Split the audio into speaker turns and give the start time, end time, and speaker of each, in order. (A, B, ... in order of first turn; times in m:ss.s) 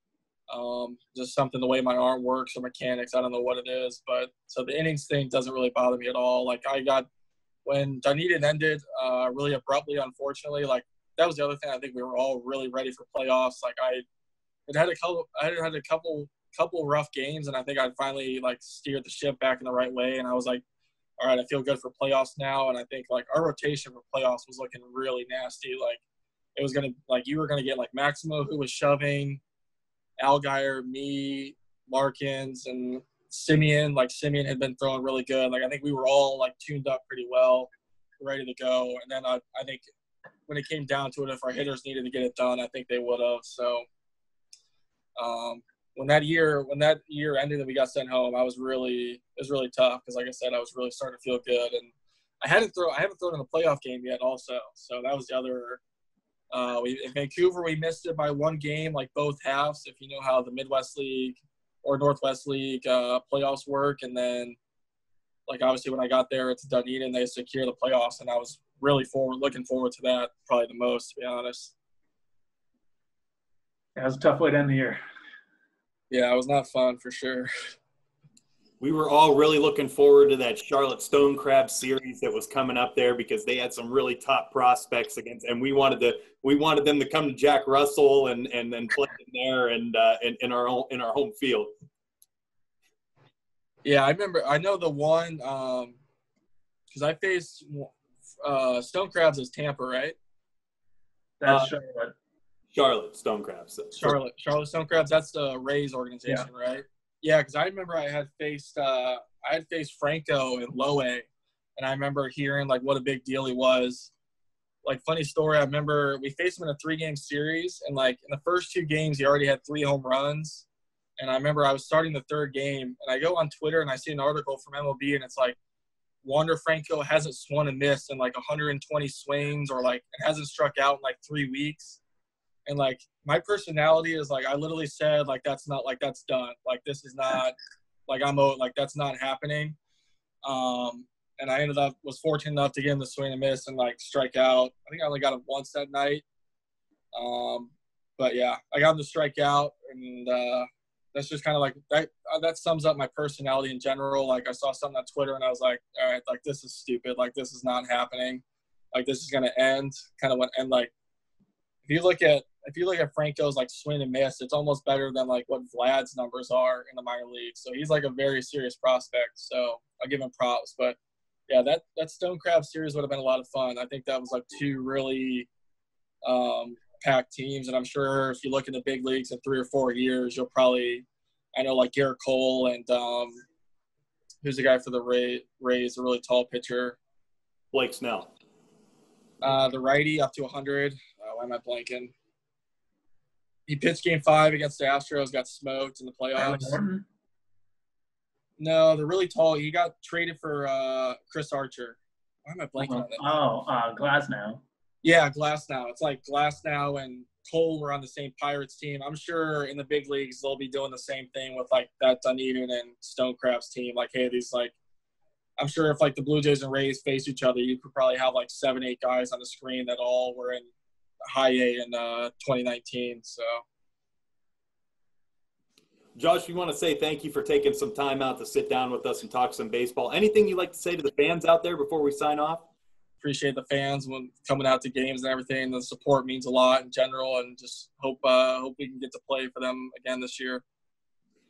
0:00.5-0:07.1 A
0:07.6-0:14.0 A
0:14.7-0:20.6 A
0:21.2-0:26.0 A
0:26.6-0:29.4 A
0:30.2-0:39.9 A
0:40.5-0:43.9 A
0:45.2-0:55.8 A
0:56.5-1:04.6 A
1:05.5-1:11.7 A
1:14.0-1:15.0 B
1:16.1-1:17.5 A
1:18.8-1:31.7 C
1:33.8-1:36.0 A
1:36.9-1:40.2 A
1:41.4-1:42.1 B
1:42.7-1:44.2 C
1:43.9-1:54.1 A
1:54.8-2:00.7 A
2:01.2-2:05.6 A
2:06.2-2:12.0 A
2:12.7-2:17.6 A
2:18.1-2:19.8 A
2:20.4-2:26.2 A
2:27.1-2:38.4 A
2:38.9-2:40.9 A
2:41.8-2:51.0 A
2:51.5-2:55.5 A
2:56.2-3:03.4 A
3:04.4-3:07.0 A
3:07.7-3:08.3 C
3:09.4-3:12.1 A
3:13.7-3:16.8 A
3:16.4-3:17.1 B
3:18.6-3:23.2 A
3:22.8-3:24.6 B
3:25.0-3:34.7 A
3:35.6-3:40.7 A
3:41.3-3:43.6 A
3:46.2-3:52.7 C
3:53.2-4:00.6 A